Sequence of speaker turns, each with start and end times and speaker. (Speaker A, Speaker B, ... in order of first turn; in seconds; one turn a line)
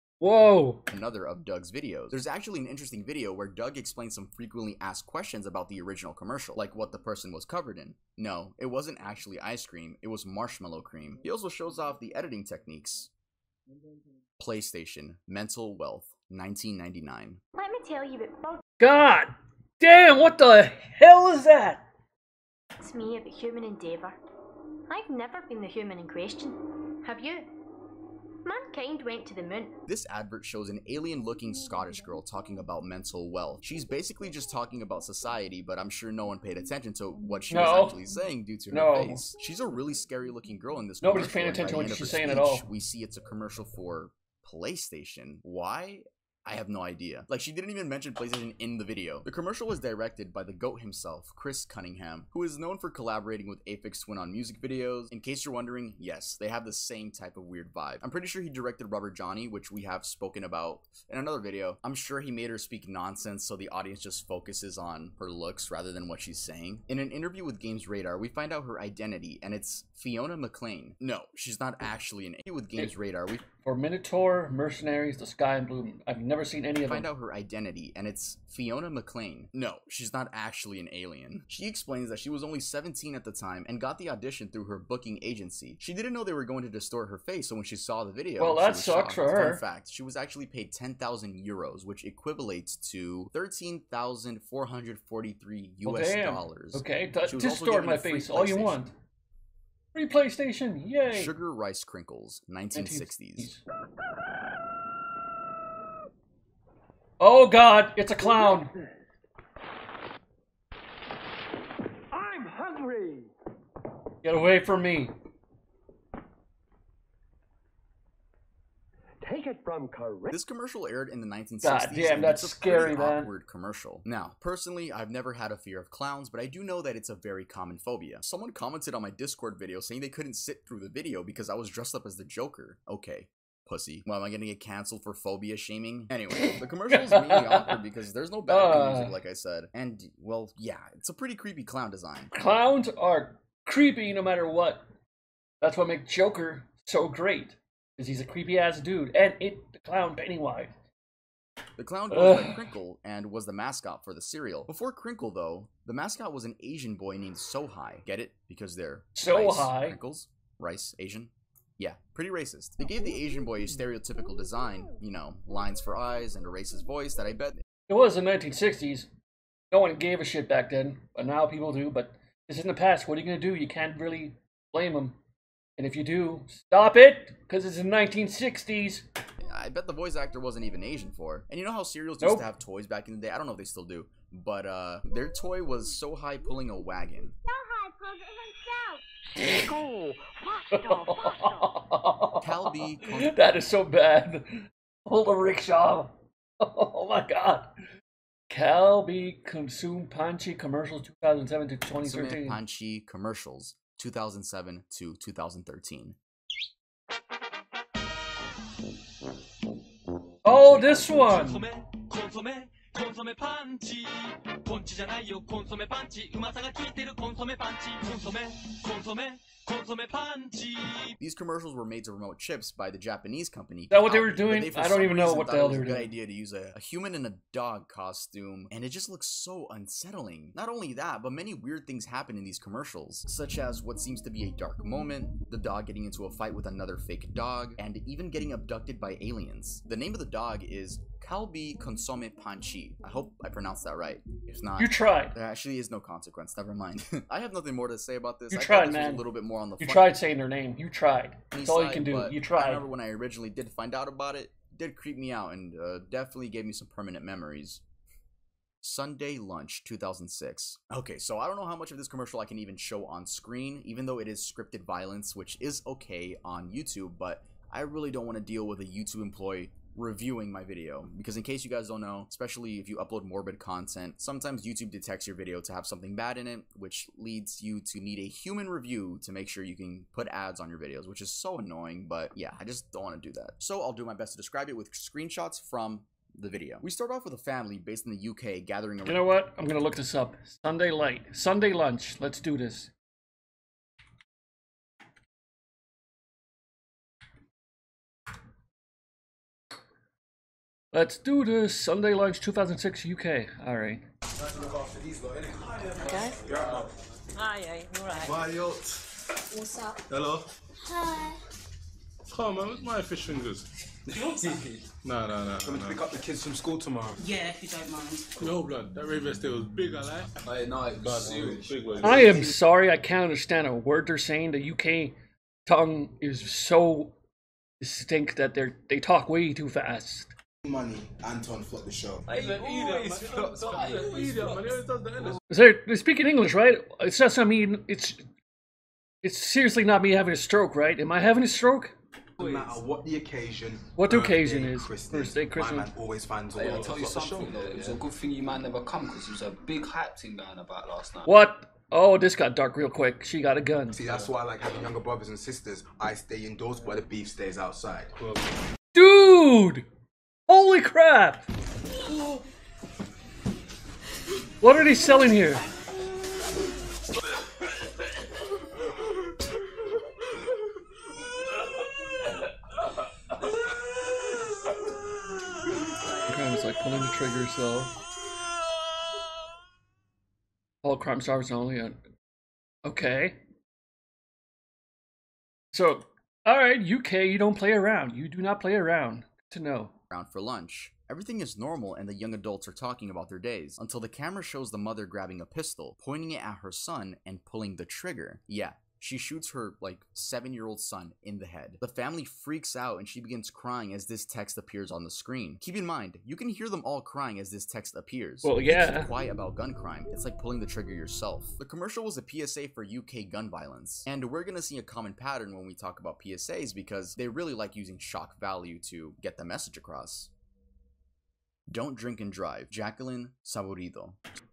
Speaker A: 0.2-0.9
Speaker B: 0.9-13.1
Speaker B: 14.4-17.4
Speaker C: 17.5-18.6
Speaker A: 18.8-21.8
Speaker C: 22.8-24.2
Speaker C: 24.9-27.5
Speaker C: 28.4-29.8
Speaker B: 29.9-73.4
Speaker A: 37.5-38.0
Speaker A: 38.7-39.2
Speaker A: 41.0-42.7
Speaker A: 73.6-77.1
Speaker B: 76.9-98.8
Speaker A: 88.4-89.6
Speaker A: 95.8-98.9
Speaker A: 99.9-101.3
Speaker B: 101.1-103.5
Speaker A: 102.7-103.6
Speaker A: 107.2-108.7
Speaker D: 112.1-113.3
Speaker A: 114.2-115.1
Speaker D: 119.2-120.3
Speaker B: 120.3-142.3
Speaker A: 121.6-123.3
Speaker A: 136.4-137.8
Speaker A: 138.5-139.2
Speaker A: 142.3-144.8
Speaker A: 145.6-150.7
Speaker B: 151.8-167.6
Speaker A: 152.1-152.6
Speaker A: 159.2-160.0
Speaker A: 167.9-169.1
Speaker A: 169.7-175.2
Speaker A: 175.8-179.0
Speaker B: 179.4-187.4
Speaker A: 182.2-182.5
Speaker C: 188.1-188.9
Speaker A: 189.4-189.7
Speaker A: 190.7-197.7
Speaker B: 192.4-193.4
Speaker A: 198.5-202.6
Speaker B: 202.0-206.2
Speaker A: 210.4-211.7
Speaker E: 211.1-221.2
Speaker B: 221.2-250.2
Speaker A: 223.9-226.1
Speaker A: 244.8-245.3
Speaker A: 248.5-249.3
Speaker A: 249.8-252.9
Speaker B: 251.5-257.8
Speaker B: 258.8-289.3
Speaker A: 289.1-292.9
Speaker A: 300.9-304.1
Speaker F: 304.5-306.9
Speaker G: 306.0-306.4
Speaker G: 307.4-308.4
Speaker F: 308.2-308.8
Speaker H: 310.1-310.5
Speaker H: 312.3-313.7
Speaker F: 314.1-314.6
Speaker H: 315.0-316.1
Speaker F: 315.6-317.2
Speaker G: 317.2-318.3
Speaker H: 318.4-320.3
Speaker I: 320.4-322.5
Speaker H: 321.0-322.5
Speaker A: 322.0-327.1
Speaker A: 327.8-330.3
Speaker F: 330.6-334.6
Speaker H: 332.3-335.4
Speaker I: 332.3-332.8
Speaker A: 335.5-338.2
Speaker A: 339.2-341.9
Speaker F: 342.4-348.0
Speaker I: 342.4-342.7
Speaker A: 344.0-345.9
Speaker I: 346.5-351.2
Speaker A: 351.3-354.0
Speaker F: 353.9-358.1
Speaker A: 358.9-359.9
Speaker A: 360.5-361.4
Speaker A: 364.6-365.6
Speaker A: 376.3-377.9
Speaker A: 380.8-382.0
Speaker A: 382.8-383.4
Speaker A: 385.7-389.9
Speaker B: 390.1-420.3
Speaker A: 408.4-409.1
Speaker B: 421.7-424.2